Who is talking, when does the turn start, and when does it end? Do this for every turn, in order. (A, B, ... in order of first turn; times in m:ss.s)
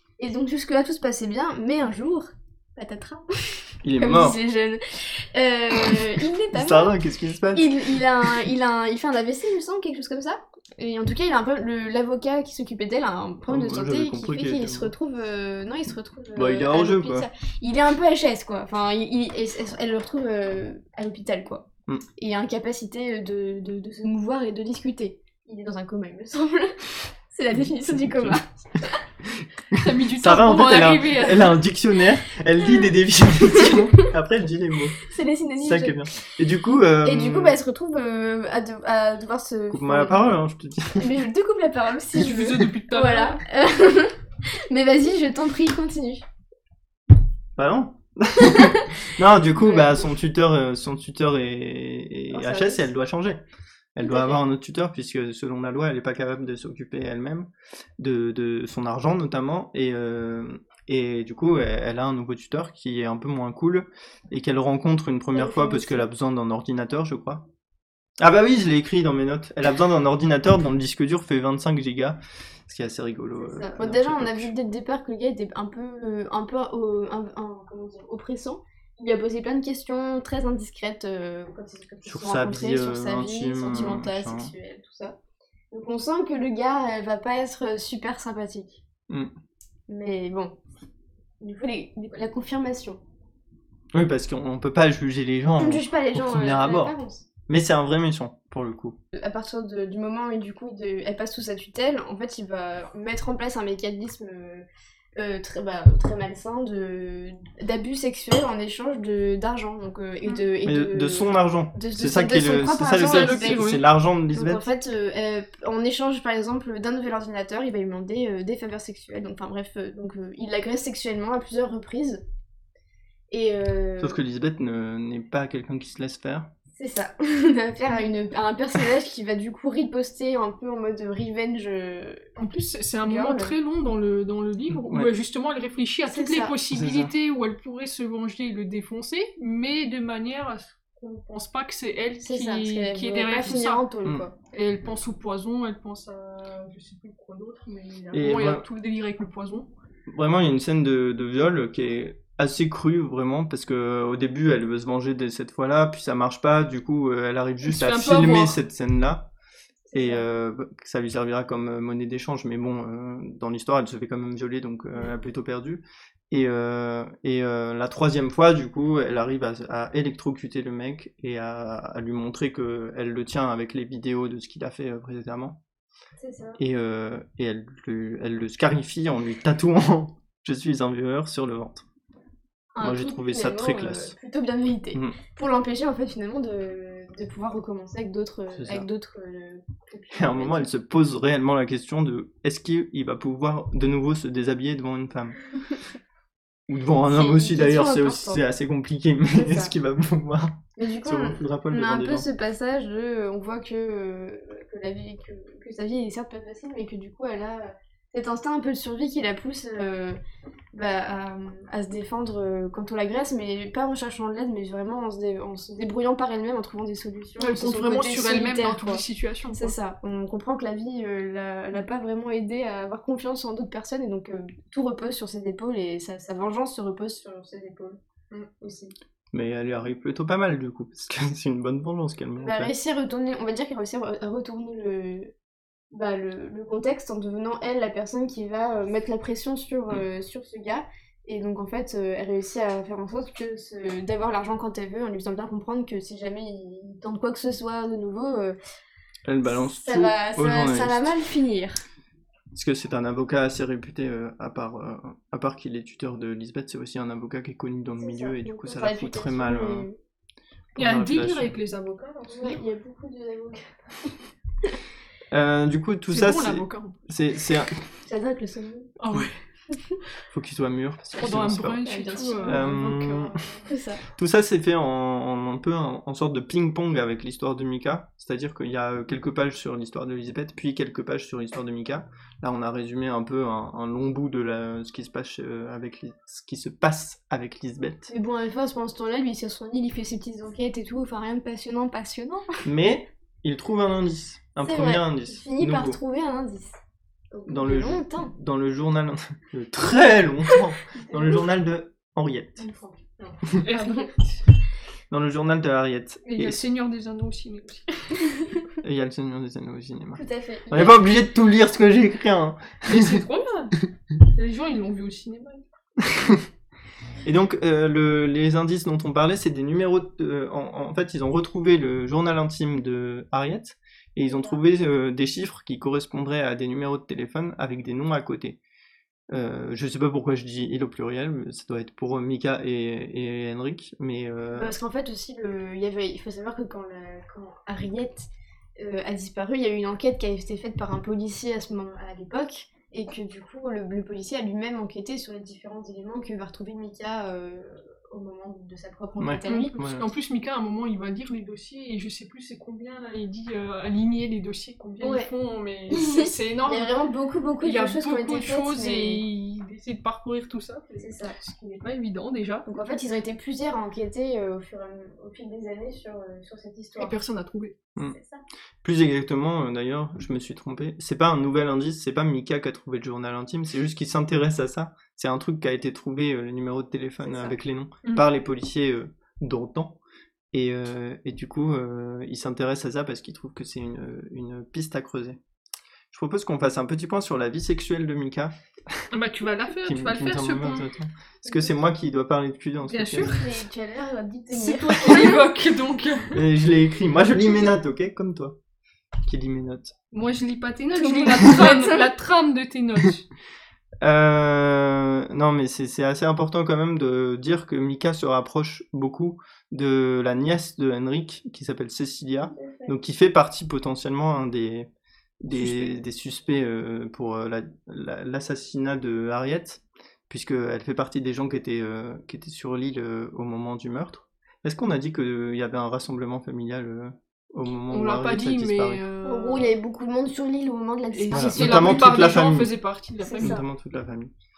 0:00.2-0:06.9 A
0:03.8-0:04.4 B
0:05.9-0:08.4 B
0:07.5-0:29.0 A
0:13.5-0:14.9 B
0:16.3-0:17.3 B
0:27.5-0:28.4 B
0:29.2-0:35.0 B
0:29.8-0:31.6 C
0:33.5-0:33.8 A
0:35.0-0:36.3 A
0:35.6-0:37.6 B
0:37.0-0:40.3 A
0:39.7-0:41.1 B
0:41.0-0:44.1 A
0:42.1-0:43.4 C
0:44.7-0:46.2 A
0:47.6-0:53.4 B
0:48.4-0:48.8 A
0:49.6-0:50.0 A
0:52.3-0:52.9 A
0:53.9-1:07.4 B
0:54.0-0:54.4 A
1:05.3-1:06.0 A
1:08.2-1:14.5 B
1:13.4-1:25.2 A
1:22.0-1:24.5 B
1:25.7-1:28.8 A
1:29.9-1:30.6 A
1:31.4-1:33.0 A
1:33.9-1:36.9 B
1:35.6-1:37.2 A
1:37.5-1:39.0 B
1:39.1-1:44.6 A
1:45.2-1:53.8 A
1:50.6-1:54.6 B
1:53.0-1:53.8 C
1:54.3-2:02.2 A
2:03.3-2:04.2 A
2:04.0-2:06.5 B
2:06.8-2:12.3 A
2:12.4-2:23.8 C
2:13.0-2:13.5 A
2:14.8-2:15.1 B
2:16.1-2:16.5 A
2:16.7-2:17.1 B
2:22.2-2:24.3 A
2:24.4-2:29.7 C
2:28.1-2:28.6 B
2:30.1-2:39.3 B
2:37.6-2:38.6 C
2:39.8-2:40.2 A
2:39.9-2:55.6 B
2:56.2-2:56.6 A
2:56.6-3:01.8 B
3:02.7-3:10.7 A
3:02.8-3:04.1 B
3:08.5-3:08.9 B
3:10.1-3:15.4 B
3:16.7-3:22.2 B
3:17.0-3:18.4 A
3:19.3-3:19.7 A
3:20.8-3:30.2 A
3:30.7-3:48.0 A
3:37.4-3:39.7 C
3:48.6-3:48.9 A
3:49.3-3:52.7 B
3:52.4-3:55.3 A
3:55.9-4:08.6 A
4:09.3-4:11.1 B
4:09.4-4:11.8 A
4:12.5-4:19.9 B
4:18.0-4:20.0 A
4:20.7-4:21.5 B
4:20.8-4:22.6 C
4:22.3-4:24.1 A
4:25.3-4:27.8 B
4:26.1-4:27.0 C
4:28.0-4:28.9 A
4:29.0-4:29.4 C
4:30.3-4:31.8 B
4:31.2-4:33.6 C
4:31.8-4:32.7 A
4:32.4-4:33.4 B
4:33.7-4:34.0 A
4:34.1-4:48.1 B
4:48.1-4:52.6 A
4:52.6-4:56.0 B
4:54.6-4:56.8 A
4:57.3-4:58.3 A
4:57.5-5:02.6 B
5:00.9-5:01.4 A
5:02.6-5:04.2 C
5:03.7-5:04.1 A
5:05.1-5:06.6 B
5:06.2-5:08.5 C
5:08.8-5:13.2 B
5:10.2-5:11.0 A
5:12.9-5:13.8 C
5:14.3-5:15.6 C
5:16.0-5:16.4 B
5:17.2-5:28.6 B
5:24.3-5:24.6 A
5:29.3-5:34.8 B
5:34.5-5:49.7 A
5:49.2-5:50.1 B
5:49.5-5:56.9 C
5:55.0-5:55.3 A
5:55.9-5:59.2 A
5:57.6-6:03.0 C
6:01.0-6:01.3 A
6:02.6-6:07.1 A
6:07.0-6:07.8 C
6:08.0-6:08.4 A
6:08.8-6:20.0 B
6:17.2-6:17.6 A
6:20.5-6:25.4 B
6:26.1-6:29.1 B
6:29.1-6:30.9 C
6:29.8-6:33.4 B
6:32.8-6:33.5 C
6:33.2-6:35.4 A
6:34.5-6:36.4 C
6:36.3-6:38.6 B
6:39.2-6:39.9 B
6:40.1-6:43.2 C
6:40.9-6:42.1 A
6:44.0-6:54.9 B
6:52.4-6:52.9 A
6:55.4-7:09.0 B
6:55.5-6:55.9 C
7:07.9-7:09.7 C
7:09.2-7:12.1 A
7:11.1-7:13.6 C
7:11.3-7:12.7 B
7:13.2-7:13.6 A
7:13.4-7:14.3 B